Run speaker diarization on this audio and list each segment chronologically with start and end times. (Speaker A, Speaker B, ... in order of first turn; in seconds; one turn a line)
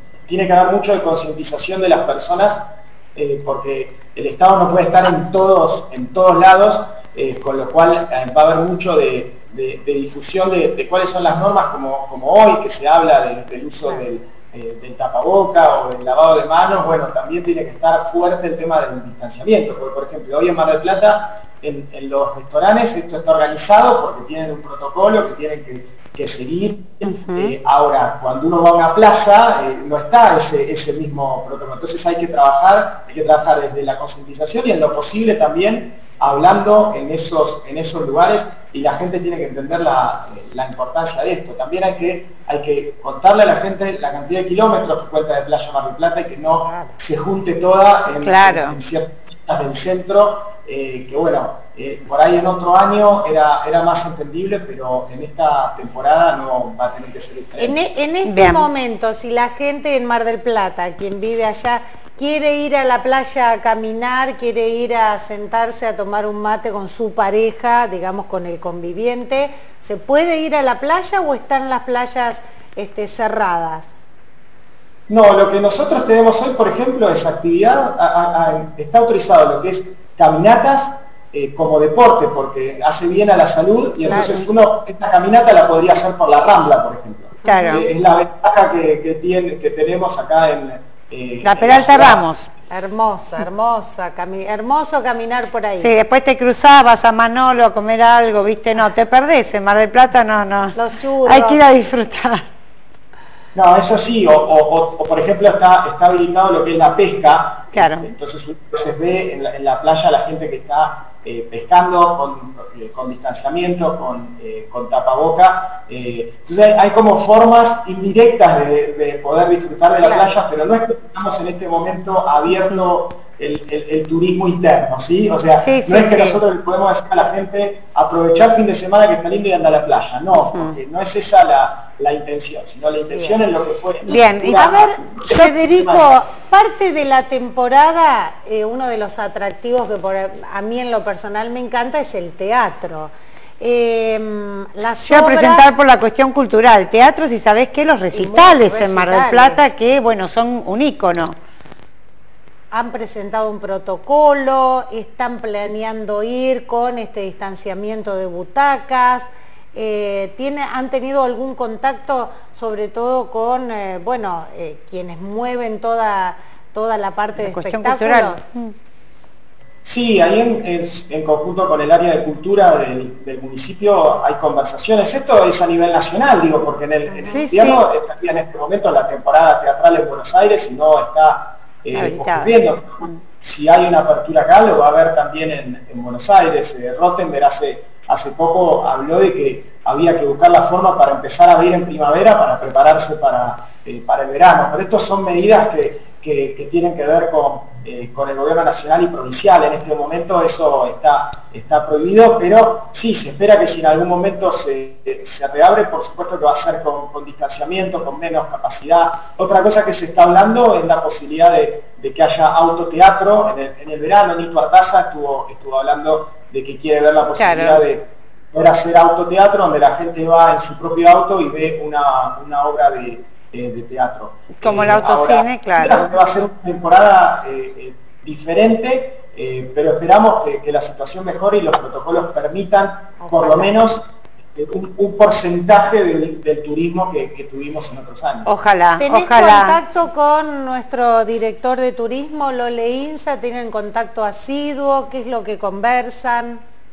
Speaker A: 0.3-57.8
Speaker B: 27.0-27.5
Speaker C: 46.6-47.0
Speaker B: 48.2-48.8
Speaker C: 57.6-73.9
Speaker B: 58.2-58.6
Speaker A: 75.1-92.2
Speaker C: 84.0-84.5
Speaker C: 87.4-87.9
Speaker B: 87.5-87.8
Speaker B: 91.4-92.5
Speaker C: 92.7-95.9
Speaker B: 95.8-102.5
Speaker C: 100.7-101.6
Speaker A: 103.5-136.1
Speaker B: 107.7-108.1
Speaker C: 120.0-120.3
Speaker B: 125.6-126.4
Speaker B: 130.4-130.8
Speaker C: 133.1-133.4
Speaker B: 134.0-134.7
Speaker C: 134.2-145.7
Speaker B: 145.0-151.3
Speaker C: 148.1-149.7
Speaker C: 152.7-168.4
Speaker B: 167.4-168.7
Speaker A: 169.8-238.5
Speaker C: 177.1-177.8
Speaker B: 177.3-177.8
Speaker B: 181.9-182.5
Speaker B: 217.3-217.8
Speaker B: 224.6-226.1
Speaker C: 233.2-233.7
Speaker B: 238.4-239.8
Speaker C: 239.0-246.6